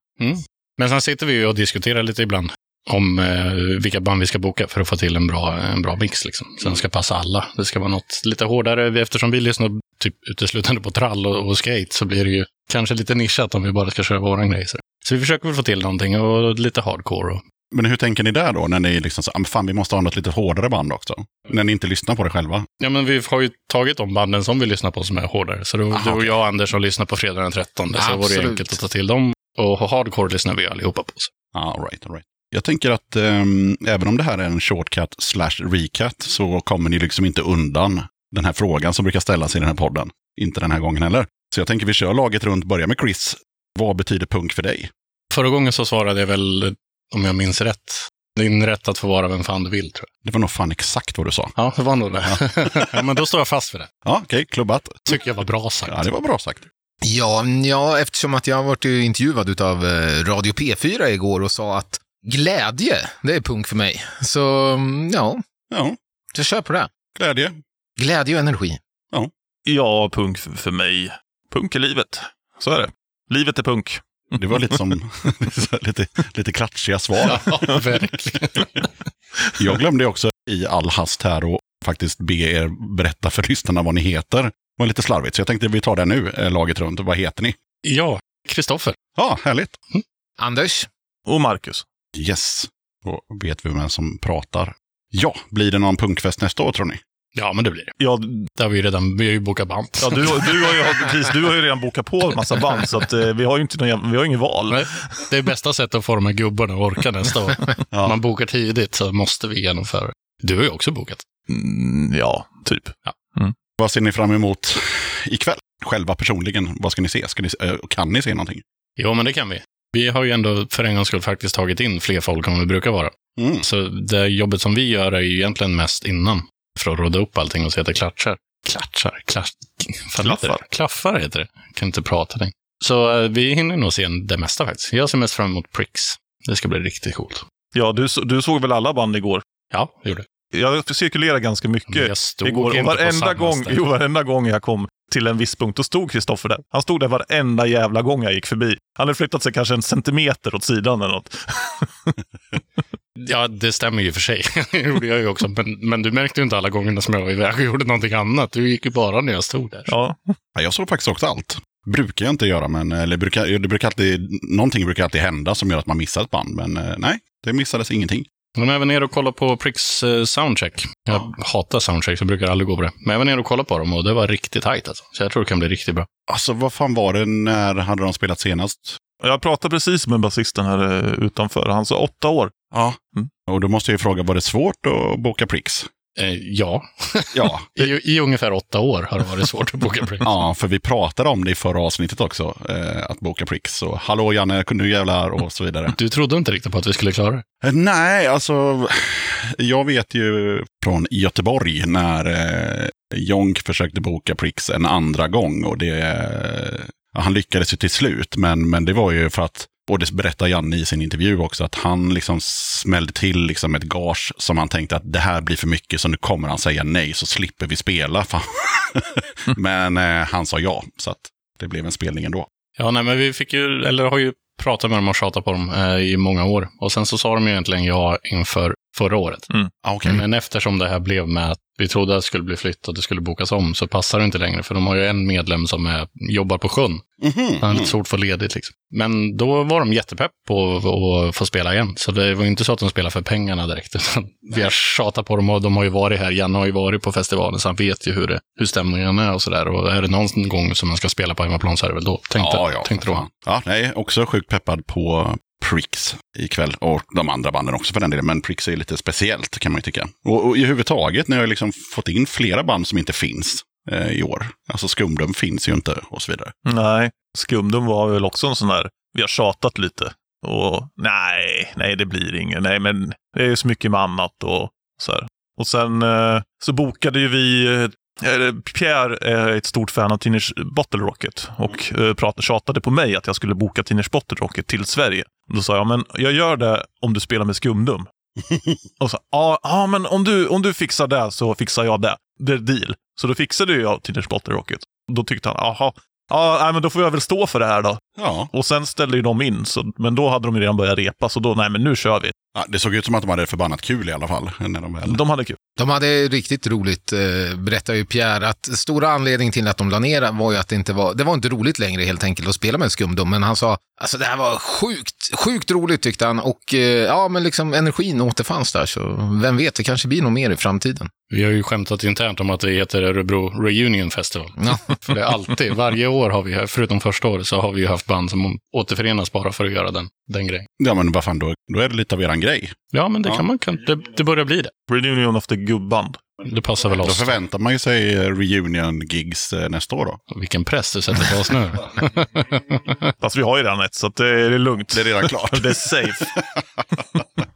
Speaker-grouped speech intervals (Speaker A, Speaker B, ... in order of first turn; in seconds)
Speaker A: 0.2-17.4, 22.8-31.3, 45.3-50.1, 51.5-53.9, 55.1-56.0, 77.2-78.7, 87.8-89.0, 97.3-97.9, 98.6-101.1, 104.7-111.2, 119.0-137.4, 139.7-140.2, 141.9-143.8, 153.2-159.9, 168.5-176.1, 186.2-190.3, 195.9-197.4, 222.8-229.4, 230.1-237.0, 237.6-253.2, 321.3-330.7, 332.9-334.7, 336.4-337.3, 340.3-343.0
Speaker B: 17.7-22.6, 25.9-26.4, 31.5-44.9, 50.2-51.5, 54.0-55.2, 55.9-56.7, 65.7-66.0, 67.2-67.6, 74.3-77.5, 79.6-87.6, 89.2-89.8, 92.1-97.0, 107.9-108.2, 113.8-118.6, 123.3-123.6, 160.5-168.2, 176.3-179.0, 182.7-185.9, 187.3-187.9, 190.2-195.9, 197.6-222.4, 229.8-230.2, 237.2-237.9, 252.4-266.5, 298.1-298.5, 302.5-305.2, 330.8-333.4, 337.0-340.2, 344.9-346.6
Speaker C: 28.0-28.8, 57.0-65.4, 66.3-66.9, 68.0-68.8, 90.4-90.9, 305.8-321.1, 324.6-324.9
Speaker D: 69.7-74.7, 91.2-91.8, 98.0-98.5, 100.0-105.0, 111.5-113.5, 130.2-130.6, 137.7-139.4, 140.5-152.1, 159.9-160.3, 179.2-182.5, 266.6-288.1, 289.0-298.0, 298.5-302.3, 305.1-305.6, 334.9-336.2, 343.2-346.3